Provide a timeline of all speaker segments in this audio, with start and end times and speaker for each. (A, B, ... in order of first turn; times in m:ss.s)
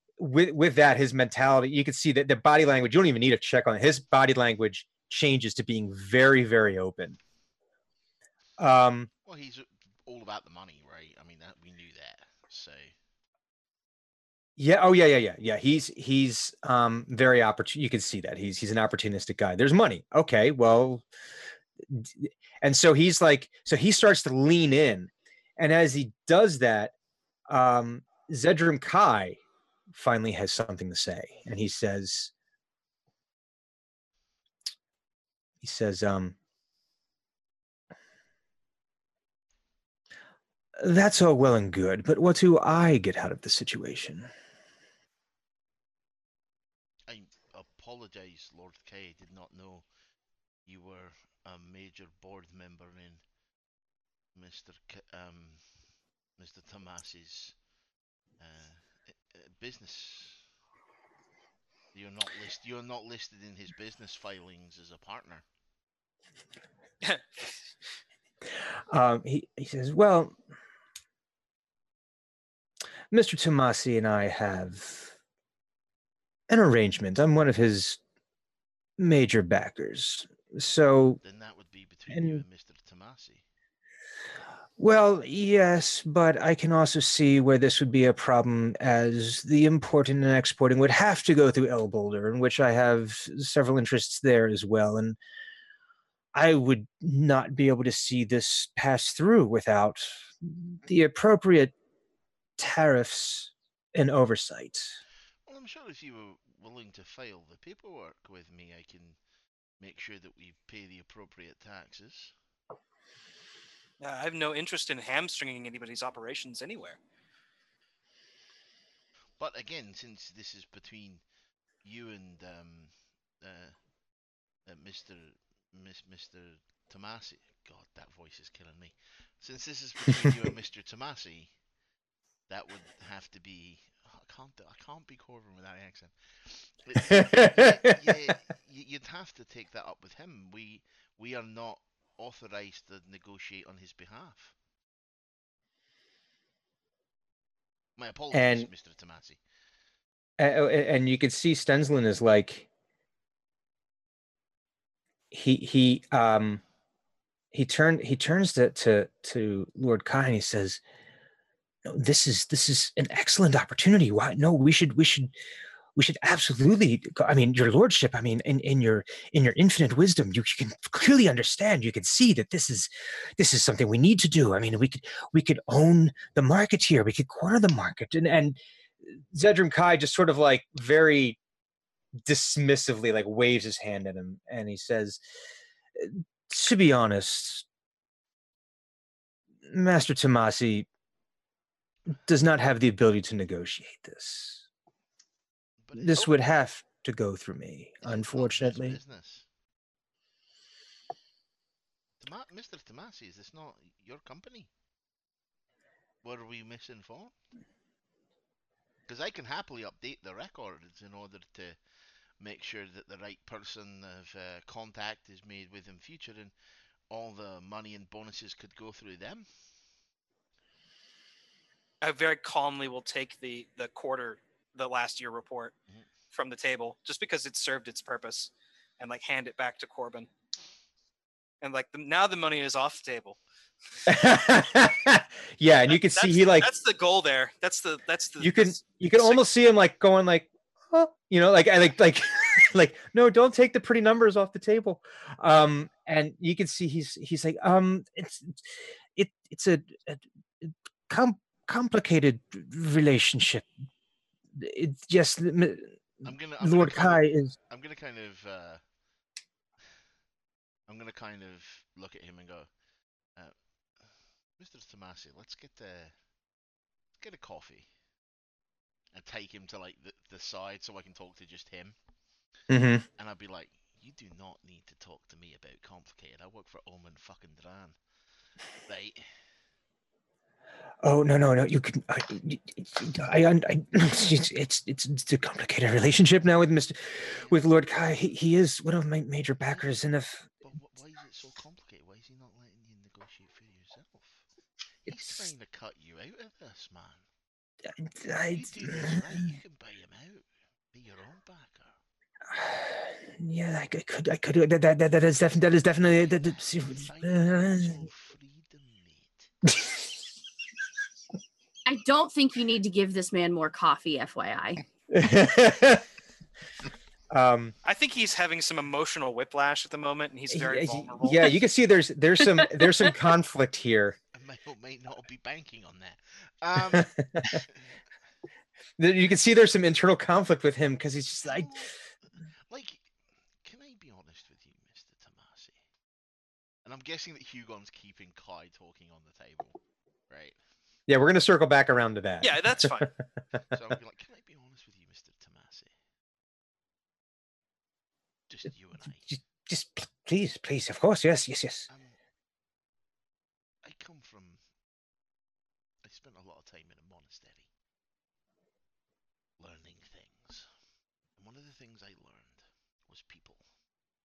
0:00.2-0:07.2 A
0:08.6-0:09.1 A
0:09.2-0:13.0 B
0:14.6-0:21.0 A
0:21.9-0:26.9 A
0:27.5-0:29.4 A
0:29.9-0:32.3 A
0:35.6-0:36.4 A
0:40.8-0:44.3 A
0:47.1-0:49.9 B
0:50.6-0:53.2 B
0:54.3-0:57.6 B
0:58.4-1:00.4 B
1:01.9-1:05.4 B
1:08.9-1:10.4 A
1:13.1-1:15.1 A
1:16.5-1:18.0 A
1:19.0-1:21.2 A
1:21.2-1:23.4 B
1:22.1-1:22.4 A
1:24.8-1:35.2 A
1:36.3-1:41.7 A
1:42.6-1:45.0 A
1:45.4-1:49.2 B
1:49.8-1:52.3 B
1:54.0-1:57.0 C
1:59.4-2:01.2 B
2:01.8-2:03.9 B
2:04.6-2:11.6 B
2:12.5-2:24.5 B
2:17.0-2:18.1 A
2:28.0-2:29.4 B
2:28.3-2:28.7 A
2:30.4-2:32.7 A
2:35.3-2:36.6 A
2:37.5-2:40.8 A
2:41.8-2:45.3 A
2:46.0-2:58.6 A
2:59.1-3:01.4 A
3:02.2-3:05.2 A
3:06.0-3:07.6 A
3:09.7-3:10.9 A
3:12.3-3:14.6 A
3:15.8-3:16.4 B
3:15.9-3:19.0 A
3:18.0-3:19.5 B
3:22.2-3:24.7 B
3:26.2-3:27.4 B
3:29.1-3:36.5 B
3:37.1-3:39.6 B
3:42.0-3:45.8 C
3:46.3-3:50.3 C
3:51.6-3:53.4 C
3:54.0-3:56.7 A
3:55.9-3:59.4 C
3:58.4-4:08.6 A
4:09.1-4:13.7 A
4:14.6-4:17.5 A
4:16.2-4:18.9 B
4:20.9-4:22.7 B
4:23.3-4:26.2 B
4:27.2-4:27.9 B
4:29.1-4:32.0 B
4:32.7-4:33.0 A
4:33.1-4:39.4 B
4:41.0-4:50.4 A
4:47.2-4:47.7 B
4:50.6-4:54.4 B
4:55.0-4:57.3 B
4:58.0-4:59.5 A
4:58.5-5:02.0 B
5:02.5-5:08.0 A
5:06.5-5:09.5 B
5:11.8-5:14.8 D
5:15.1-5:16.0 A
5:17.3-5:17.7 A
5:17.8-5:21.5 C
5:20.5-5:24.2 A
5:24.3-5:28.0 B
5:26.9-5:27.6 A
5:29.0-5:31.7 A
5:31.5-5:31.9 B
5:32.7-5:35.8 B
5:36.8-5:40.6 B
5:41.1-5:43.1 A
5:42.4-5:43.1 C
5:43.7-5:46.0 B
5:48.5-5:49.3 B
5:49.3-5:51.9 A
5:51.9-5:52.2 B
5:53.8-5:54.6 B
5:56.0-5:57.7 B
5:59.6-6:00.7 B
6:01.3-6:03.7 B